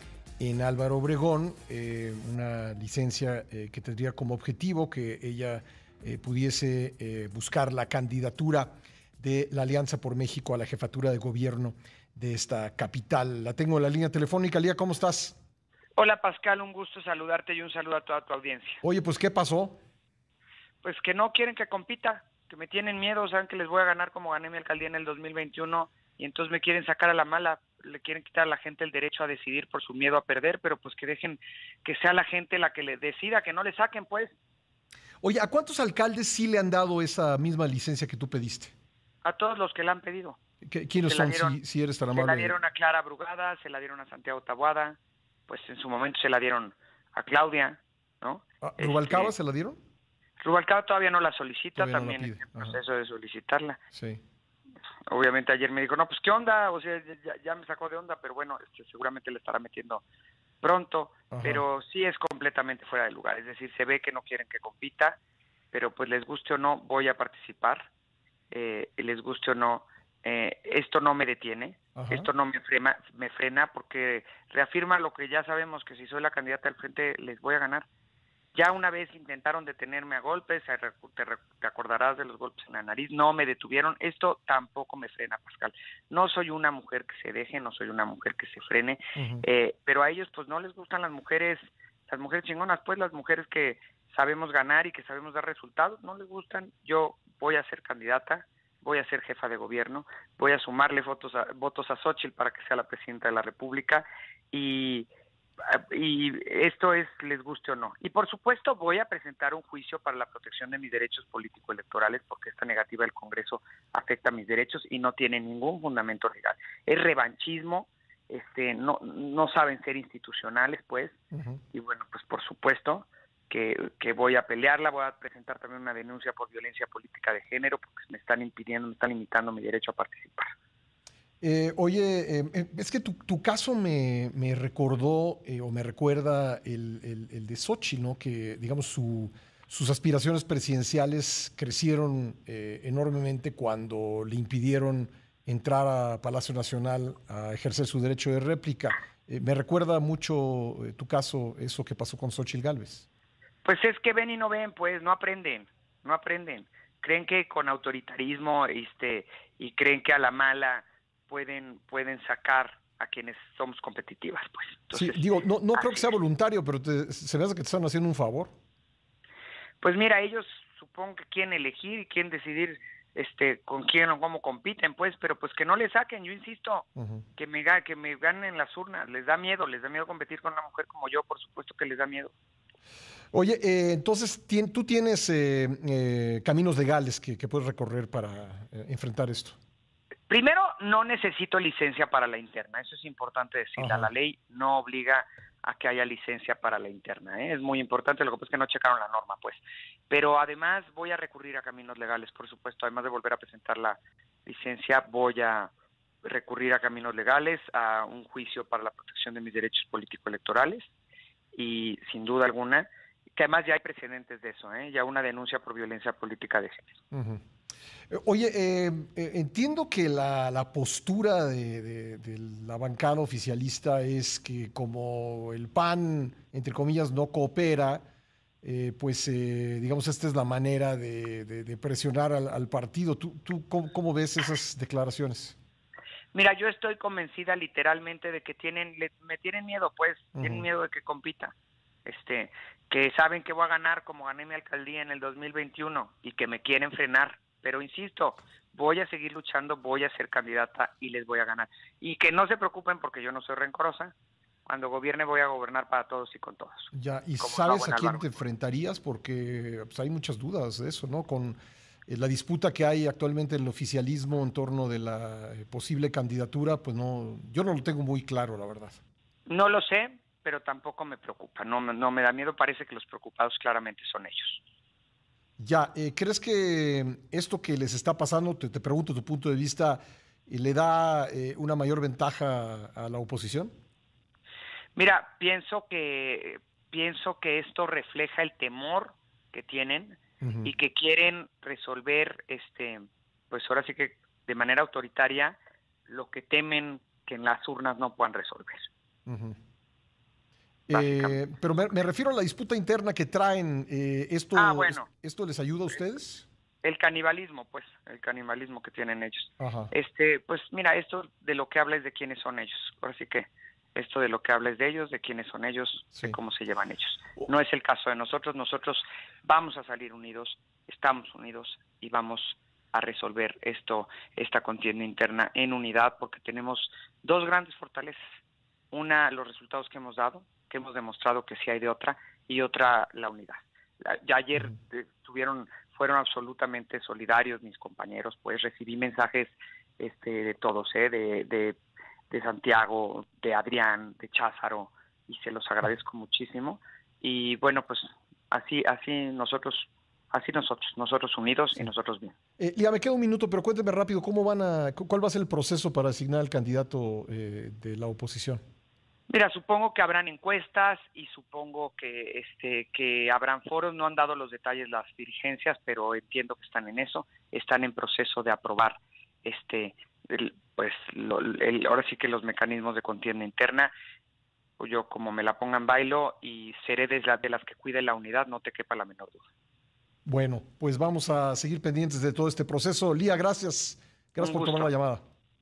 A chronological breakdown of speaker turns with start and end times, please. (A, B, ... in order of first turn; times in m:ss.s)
0:00.4-0:15.4 A
0:16.0-0:18.8 B
0:18.8-0:19.8 A
0:20.8-0:34.3 B
0:35.2-0:38.7 A
0:39.2-0:40.4 B
0:40.6-0:42.6 A
0:41.1-0:41.6 B
0:42.1-0:49.3 B
0:48.6-0:49.8 A
0:50.4-0:53.8 B
0:51.8-0:52.8 A
0:53.9-0:54.2 A
0:55.1-1:00.0 B
1:00.6-1:05.2 B
1:01.3-1:01.6 A
1:05.7-1:07.9 B
1:08.5-1:17.9 B
1:12.0-1:12.3 A
1:18.5-1:45.1 B
1:29.2-1:29.4 A
1:45.6-2:01.2 B
2:01.3-2:01.6 A
2:01.7-2:10.5 B
2:11.4-2:33.1 A
2:33.6-2:45.2 B
2:44.9-2:48.5 A
2:45.7-2:46.1 B
2:49.8-2:56.9 B
2:57.0-2:57.2 A
2:57.4-3:02.3 B
3:03.3-3:09.6 A
3:10.3-3:25.7 B
3:13.8-3:14.1 A
3:26.2-3:30.8 B
3:31.6-3:37.0 B
3:37.1-3:37.4 A
3:38.1-3:48.0 A
3:48.6-3:55.6 A
3:56.3-4:01.5 B
4:00.4-4:00.7 A
4:02.1-4:14.1 B
4:14.7-4:18.3 B
4:16.9-4:29.0 A
4:29.5-4:34.6 B
4:35.6-4:43.7 A
4:45.0-4:55.6 B
4:50.4-4:50.7 A
4:56.1-4:58.9 B
4:59.3-4:59.6 A
5:00.9-5:06.5 A
5:00.9-5:01.4 B
5:04.6-5:05.1 B
5:06.8-5:28.2 B
5:09.6-5:09.9 A
5:28.9-5:41.8 B
5:42.3-5:52.4 B
5:52.6-5:58.6 A
5:59.3-6:13.9 B
6:14.8-6:19.4 B
6:20.3-6:25.2 A
6:24.4-6:24.9 B